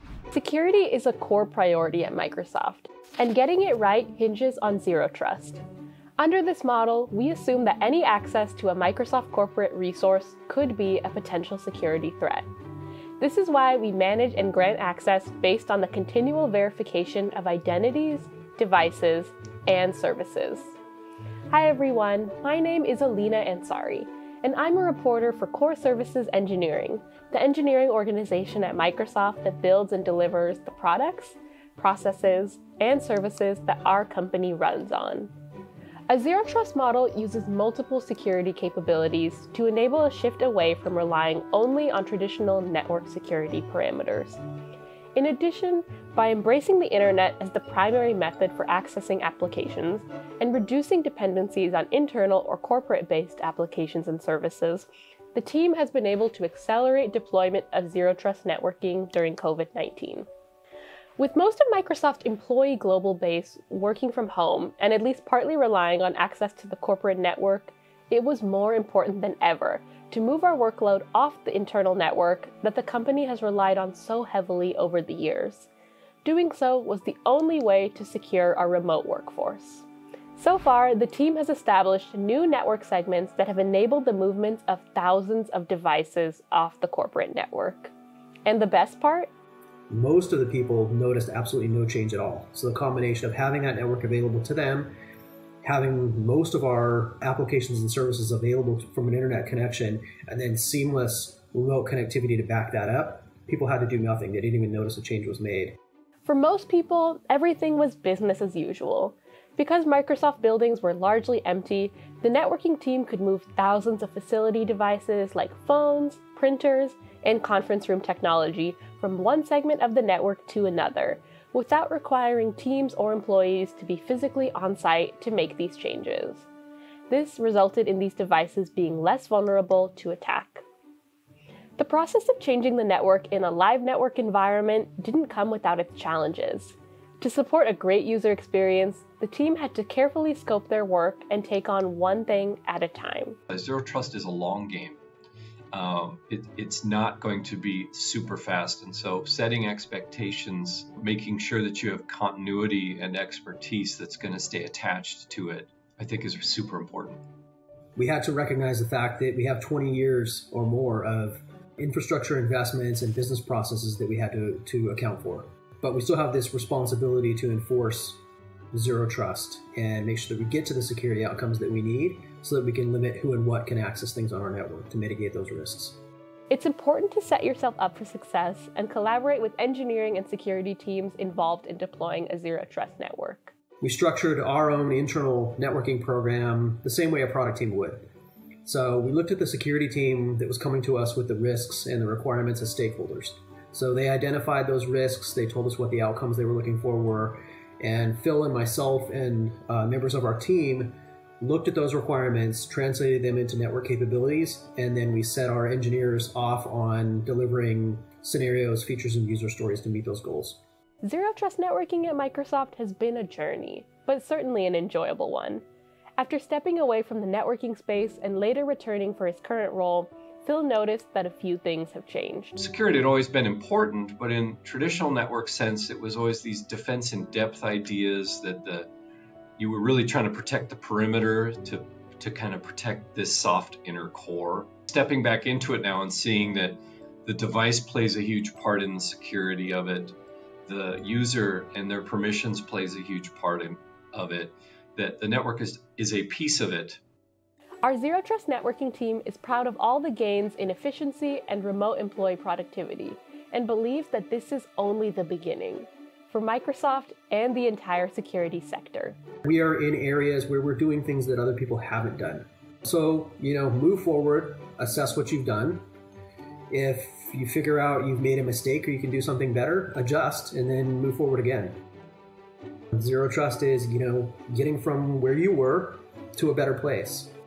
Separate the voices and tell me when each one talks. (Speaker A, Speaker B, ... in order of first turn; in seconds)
Speaker A: 0.3-5.6, 6.2-12.5, 13.2-20.7, 21.5-35.3, 36.1-44.4, 45.1-60.3, 61.2-75.7, 76.2-87.9, 88.5-89.3, 106.2-126.5, 127.1-130.6, 131.8-143.4, 176.5-183.5, 211.0-215.6, 216.2-222.5, 247.8-259.2
Speaker B: 89.9-94.9, 95.6-105.8, 157.9-168.2, 168.7-176.0, 183.8-188.1, 188.6-210.6, 259.4-265.8, 266.7-271.8, 272.9-277.3
Speaker C: 143.5-145.0, 145.7-157.2, 222.6-228.9, 229.6-247.0